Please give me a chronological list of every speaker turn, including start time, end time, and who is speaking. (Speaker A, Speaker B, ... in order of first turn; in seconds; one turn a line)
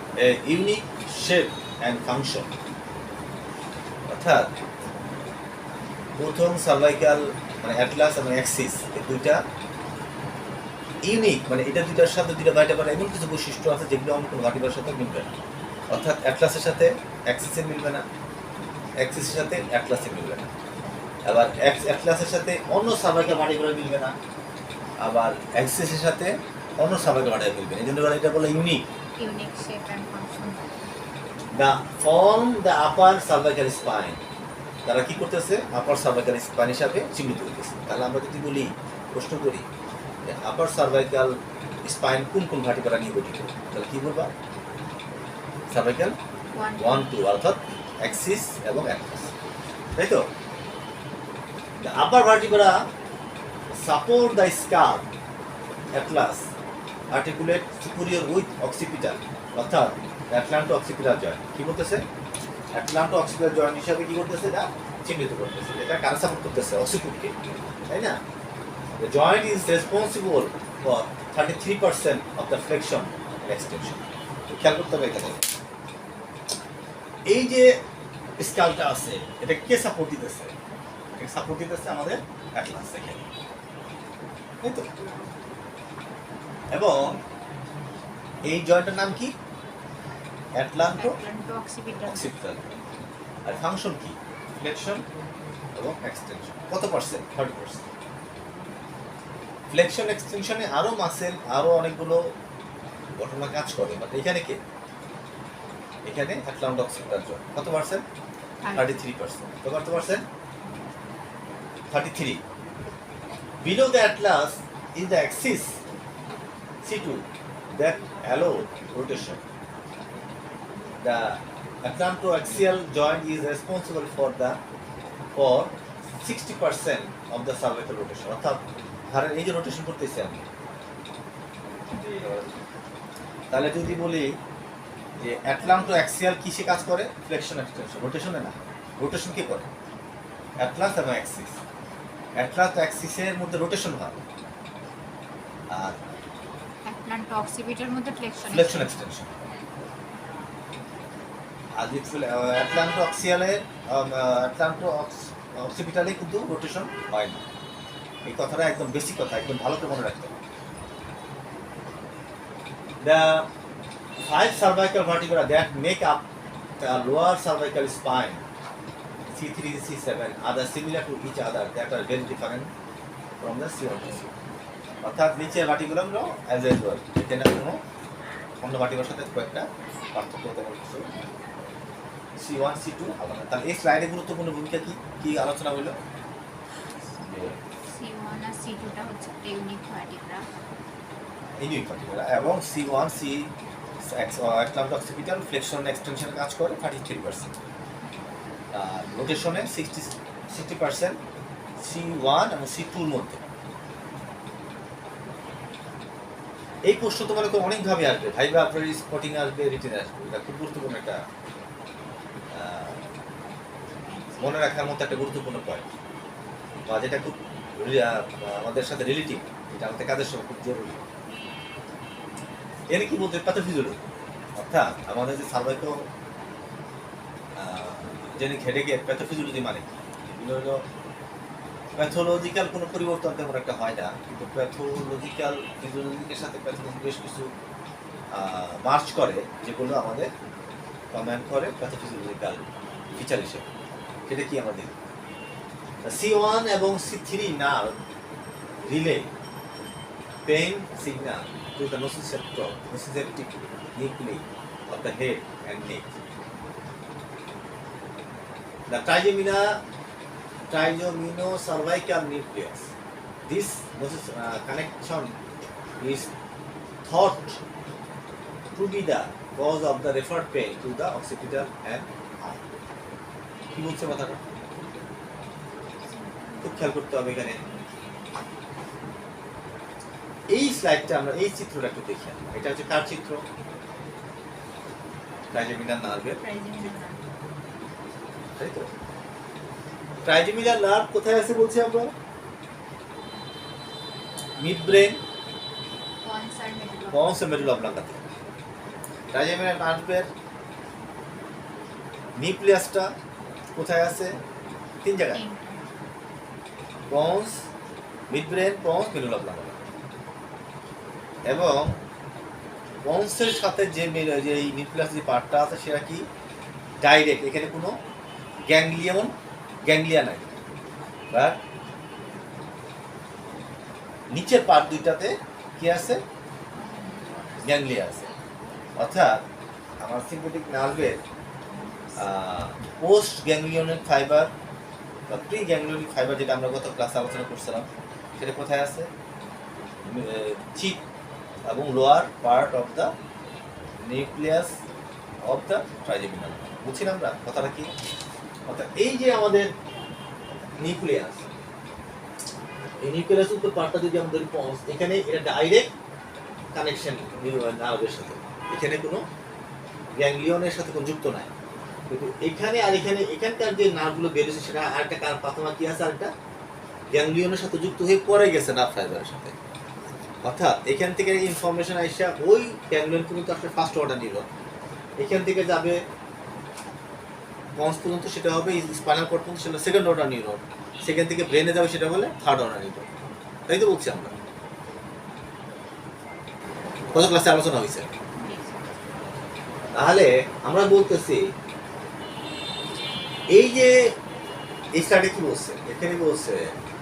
Speaker A: 0.2-2.5
Speaker A: 4.1-4.5
Speaker A: 6.2-9.4
Speaker A: 11.0-15.3
Speaker A: 15.9-18.1
Speaker A: 19.0-20.5
Speaker A: 21.3-24.1
Speaker A: 25.0-28.9
Speaker B: 29.2-30.9
Speaker A: 31.5-34.2
Speaker A: 34.9-39.7
Speaker A: 40.2-41.3
Speaker A: 41.8-44.3
Speaker A: 45.7-46.2
Speaker B: 46.5-47.2
Speaker A: 46.8-49.3
Speaker A: 50.0-50.2
Speaker A: 51.8-52.8
Speaker A: 53.8-55.0
Speaker A: 55.9-56.4
Speaker A: 57.1-62.0
Speaker A: 62.8-67.3
Speaker A: 67.9-68.2
Speaker A: 69.0-75.4
Speaker A: 77.3-77.8
Speaker A: 78.4-80.5
Speaker A: 81.2-83.3
Speaker A: 86.7-87.2
Speaker A: 88.5-89.3
Speaker A: 90.6-91.2
Speaker B: 91.0-92.3
Speaker A: 92.0-92.6
Speaker A: 93.5-95.0
Speaker A: 95.8-97.8
Speaker A: 99.7-102.2
Speaker A: 103.2-104.6
Speaker A: 106.1-108.0
Speaker B: 108.6-109.0
Speaker A: 108.7-110.2
Speaker A: 111.9-112.4
Speaker A: 113.6-115.8
Speaker A: 116.9-117.2
Speaker A: 117.8-119.4
Speaker A: 121.0-124.6
Speaker A: 125.4-130.4
Speaker A: 132.1-132.4
Speaker A: 133.5-134.3
Speaker A: 135.2-139.7
Speaker A: 140.6-141.6
Speaker A: 142.4-144.2
Speaker A: 145.7-146.0
Speaker B: 146.8-149.0
Speaker A: 148.4-149.3
Speaker A: 151.8-157.4
Speaker A: 158.2-160.3
Speaker A: 163.0-163.4
Speaker A: 164.2-166.2
Speaker A: 166.8-168.4
Speaker A: 169.3-172.7
Speaker A: 173.4-174.3
Speaker A: 175.0-177.8
Speaker A: 178.6-181.1
Speaker A: 182.4-185.9
Speaker A: 187.2-187.6
Speaker B: 187.9-190.5
Speaker A: 191.6-193.5
Speaker A: 194.1-197.5
Speaker A: 198.7-201.2
Speaker A: 201.8-203.4
Speaker A: 206.9-211.2
Speaker A: 212.5-213.0
Speaker A: 214.4-215.8
Speaker A: 216.9-221.0
Speaker A: 222.9-224.0
Speaker A: 224.6-226.0
Speaker A: 227.6-230.8
Speaker A: 232.0-237.5
Speaker A: 238.3-240.3
Speaker A: 241.1-243.6
Speaker A: 244.3-244.9
Speaker A: 246.0-247.9
Speaker A: 248.8-249.3
Speaker A: 250.5-256.1
Speaker A: 258.9-259.8
Speaker A: 260.7-262.9
Speaker A: 263.5-265.3
Speaker A: 266.0-266.3
Speaker A: 267.1-267.6
Speaker A: 268.8-272.6
Speaker A: 273.7-274.4
Speaker B: 276.1-278.1
Speaker A: 276.6-277.6
Speaker A: 280.5-283.4
Speaker A: 285.5-286.4
Speaker B: 286.4-287.2
Speaker A: 288.6-288.9
Speaker A: 290.2-292.1
Speaker A: 294.6-295.2
Speaker B: 296.2-297.5
Speaker A: 297.1-298.2
Speaker A: 299.3-300.3
Speaker A: 302.4-303.1
Speaker A: 303.8-304.4
Speaker A: 305.0-305.4
Speaker B: 305.2-305.9
Speaker A: 307.1-307.6
Speaker A: 308.3-309.8
Speaker A: 311.4-311.9
Speaker A: 313.0-316.2
Speaker A: 317.0-317.9
Speaker A: 318.6-319.3
Speaker A: 319.9-320.5
Speaker A: 324.3-326.2
Speaker B: 326.7-327.8
Speaker A: 327.6-328.3
Speaker A: 329.0-329.4
Speaker A: 330.0-331.2
Speaker B: 331.7-332.3
Speaker A: 332.1-334.5
Speaker A: 335.3-339.1
Speaker A: 340.0-341.0
Speaker A: 341.7-343.1
Speaker A: 344.0-344.7
Speaker A: 345.4-347.9
Speaker A: 348.7-349.7
Speaker A: 350.8-351.4
Speaker A: 353.0-355.9
Speaker A: 356.8-359.2
Speaker A: 360.1-361.5
Speaker A: 362.1-366.3
Speaker A: 367.1-369.6
Speaker A: 370.4-374.4
Speaker A: 375.2-376.0
Speaker A: 377.8-383.1
Speaker A: 383.7-384.3
Speaker A: 387.1-388.1
Speaker B: 388.4-388.8
Speaker A: 389.9-391.4
Speaker A: 393.5-394.1
Speaker A: 394.9-396.7